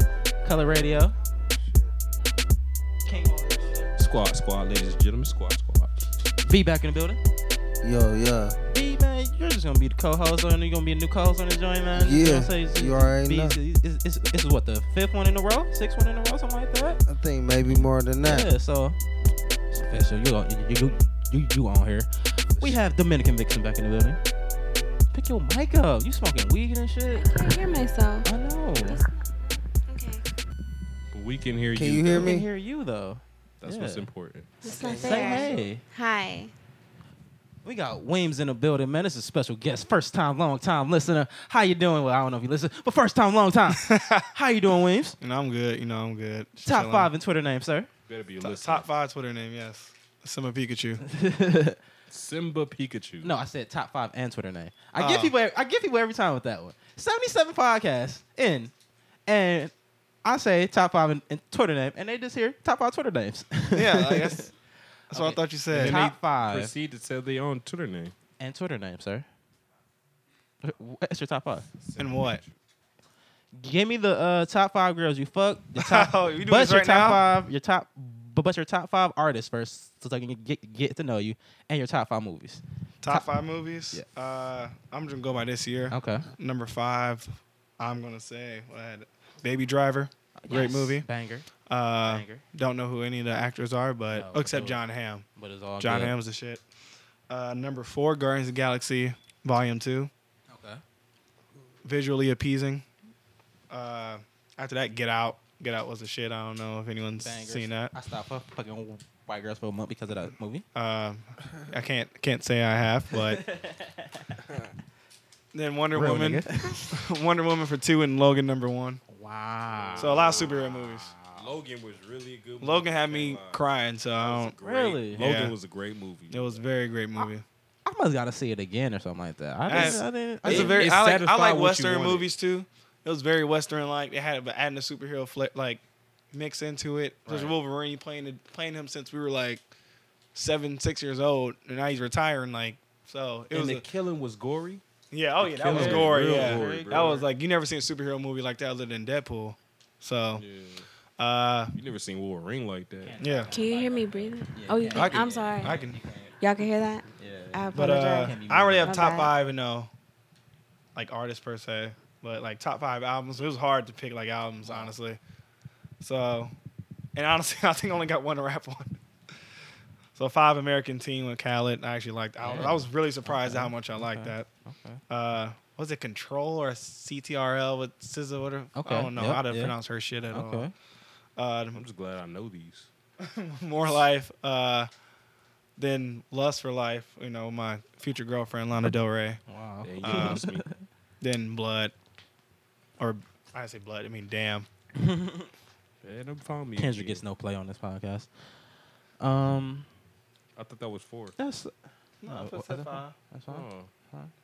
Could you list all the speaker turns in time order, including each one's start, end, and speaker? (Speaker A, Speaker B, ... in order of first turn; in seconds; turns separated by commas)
Speaker A: 0.4-1.1, Speaker A: 3.0-3.9, Speaker B: 4.0-5.9, Speaker A: 6.4-7.2, Speaker C: 7.8-8.6, Speaker A: 8.7-17.0, Speaker C: 11.9-13.6, Speaker C: 17.1-18.5, Speaker A: 18.2-19.0, Speaker A: 19.7-24.2, Speaker A: 25.1-27.3, Speaker D: 27.1-28.3, Speaker A: 28.2-29.0, Speaker D: 28.8-30.2, Speaker B: 31.1-32.4, Speaker C: 31.7-32.5, Speaker A: 32.1-34.1, Speaker B: 33.6-34.5, Speaker D: 34.6-36.5, Speaker C: 34.6-35.5, Speaker A: 34.7-35.8, Speaker A: 37.6-45.2, Speaker E: 43.7-44.3, Speaker E: 45.2-47.1, Speaker A: 46.6-47.9, Speaker B: 48.1-48.9, Speaker E: 48.4-51.0, Speaker A: 51.0-51.8, Speaker B: 52.1-53.3, Speaker A: 53.2-58.7, Speaker E: 55.0-55.3, Speaker A: 59.3-59.7, Speaker A: 60.2-64.5, Speaker E: 63.7-64.5, Speaker E: 65.1-66.1, Speaker A: 65.1-66.7, Speaker B: 65.8-68.1, Speaker A: 68.4-69.2, Speaker A: 70.6-71.7, Speaker B: 71.8-72.5, Speaker E: 72.0-72.4, Speaker A: 73.6-83.3, Speaker E: 75.8-77.3, Speaker E: 83.0-91.0, Speaker A: 85.9-86.3, Speaker A: 90.4-91.5, Speaker E: 91.7-95.2, Speaker A: 92.0-92.4, Speaker A: 94.1-94.8, Speaker A: 95.3-96.1, Speaker E: 95.8-96.6, Speaker E: 97.3-100.1, Speaker A: 100.5-100.8, Speaker E: 101.8-102.8, Speaker E: 103.7-107.9, Speaker A: 107.2-110.7, Speaker E: 110.7-113.4, Speaker A: 113.1-114.4, Speaker B: 114.4-114.7, Speaker E: 115.5-119.0, Speaker A: 115.9-117.0, Speaker A: 119.1-121.5, Speaker B: 119.7-120.6, Speaker E: 120.0-121.1, Speaker B: 121.3-126.6, Speaker E: 122.6-124.5, Speaker A: 124.6-125.2, Speaker E: 125.1-125.5, Speaker E: 126.3-127.4, Speaker A: 127.8-130.8, Speaker E: 129.7-139.6, Speaker B: 129.7-132.3, Speaker B: 137.2-137.5, Speaker E: 140.3-143.8, Speaker B: 143.5-144.8, Speaker E: 145.1-150.4, Speaker B: 145.4-147.3, Speaker A: 145.7-147.2, Speaker B: 150.3-150.8, Speaker E: 151.2-151.8, Speaker B: 151.7-153.2, Speaker A: 153.0-156.3, Speaker E: 153.2-153.5, Speaker D: 153.5-155.8, Speaker E: 154.9-156.0, Speaker D: 156.4-159.3, Speaker A: 157.2-159.1, Speaker E: 157.7-159.9, Speaker E: 160.9-165.2, Speaker A: 164.6-164.9, Speaker E: 166.0-166.5, Speaker E: 167.1-169.0, Speaker E: 170.2-174.5, Speaker A: 172.4-175.0, Speaker E: 175.1-180.7, Speaker A: 178.8-179.7, Speaker A: 180.3-180.7, Speaker E: 181.3-181.8, Speaker B: 181.7-182.9, Speaker E: 183.2-184.9, Speaker E: 185.8-189.4, Speaker A: 189.5-190.8, Speaker B: 189.8-190.7, Speaker E: 190.0-190.4, Speaker E: 191.2-191.9, Speaker E: 193.0-194.7, Speaker A: 195.0-195.5, Speaker B: 196.0-197.2, Speaker A: 196.8-198.3, Speaker A: 199.2-199.9, Speaker B: 200.6-201.3, Speaker A: 201.4-201.7, Speaker E: 202.2-203.2, Speaker A: 202.3-204.3, Speaker B: 203.5-203.9